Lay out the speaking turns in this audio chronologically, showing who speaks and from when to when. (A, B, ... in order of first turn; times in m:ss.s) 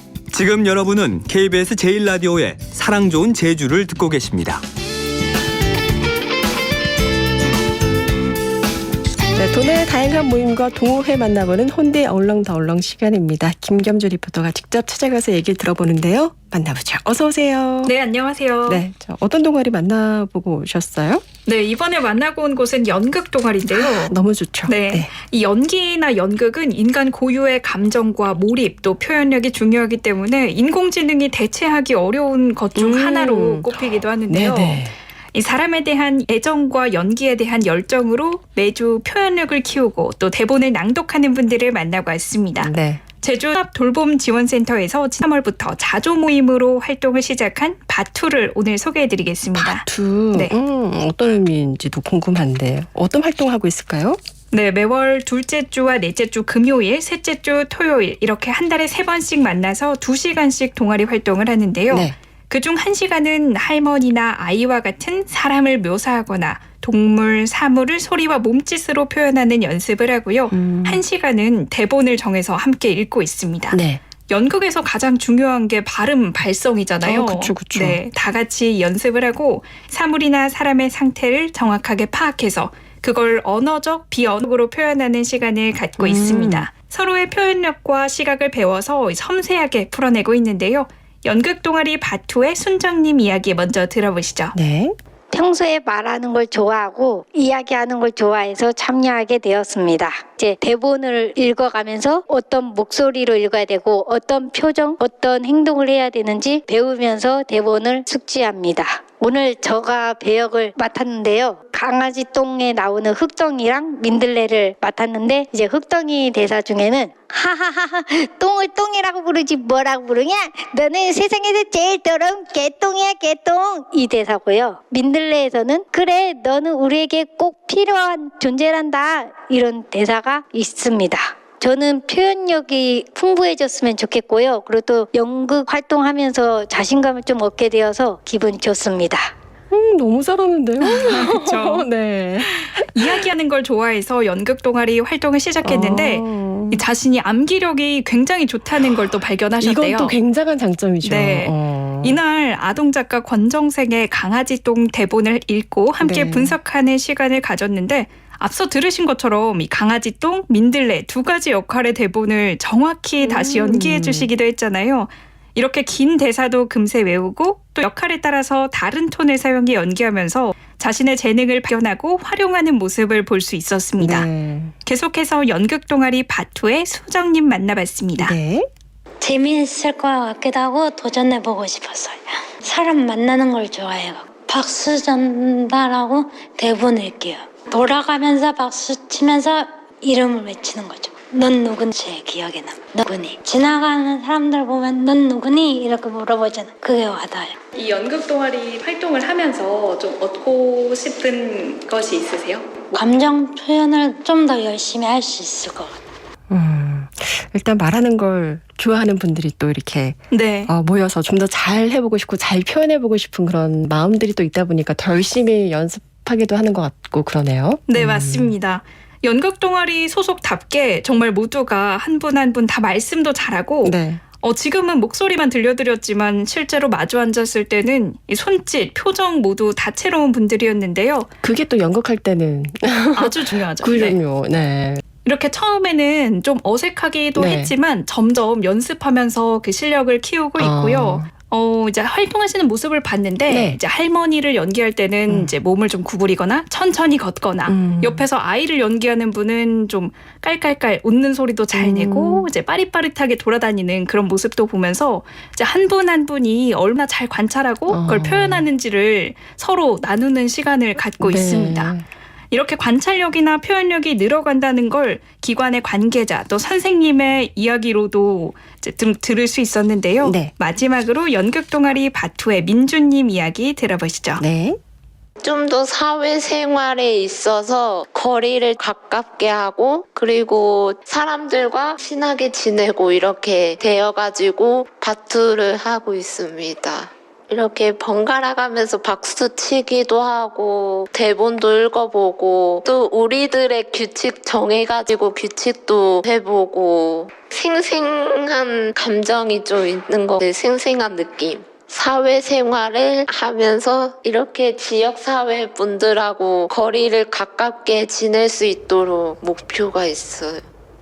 0:00.3-0:04.6 A
0:09.4-0:17.9 B
0:17.8-0:18.8 C
0:18.7-0:21.2 B
0:21.4-0:24.1 C
0:23.8-0:25.1 B
0:24.7-0:50.5 C
0:32.7-0:33.8 B
0:34.3-0:34.9 B
0:42.6-0:43.0 B
0:49.6-0:54.2 B
0:54.5-1:34.5 C
1:01.9-1:02.2 B
1:10.5-1:11.0 B
1:13.7-1:14.0 B
1:17.0-1:18.0 B
1:26.0-1:26.7 B
1:34.5-1:34.9 B
1:35.3-2:19.3 D
2:19.7-2:23.1 B
2:20.8-2:21.9 C
2:22.8-2:30.2 C
2:25.6-2:26.8 B
2:29.6-2:32.2 B
2:31.0-2:54.3 C
2:36.0-2:36.6 B
2:43.2-2:44.3 B
2:54.0-2:54.7 B
2:54.8-2:58.3 C
2:58.2-2:58.7 B
2:59.2-3:17.5 E
3:17.7-3:22.8 C
3:22.9-3:26.0 E
3:26.5-3:38.6 B
3:30.3-3:30.7 C
3:37.9-3:51.3 C
3:43.8-3:44.2 B
3:51.4-3:55.0 B
3:53.1-3:54.2 C
3:55.2-4:21.9 C
3:57.4-3:57.7 B
4:00.6-4:01.3 B
4:03.5-4:03.8 B
4:07.7-4:08.2 B
4:11.7-4:12.5 B
4:17.9-4:18.7 B
4:21.2-4:22.0 B
4:22.5-4:34.4 C
4:30.2-4:30.5 B
4:34.4-4:34.8 B
4:35.4-5:10.6 F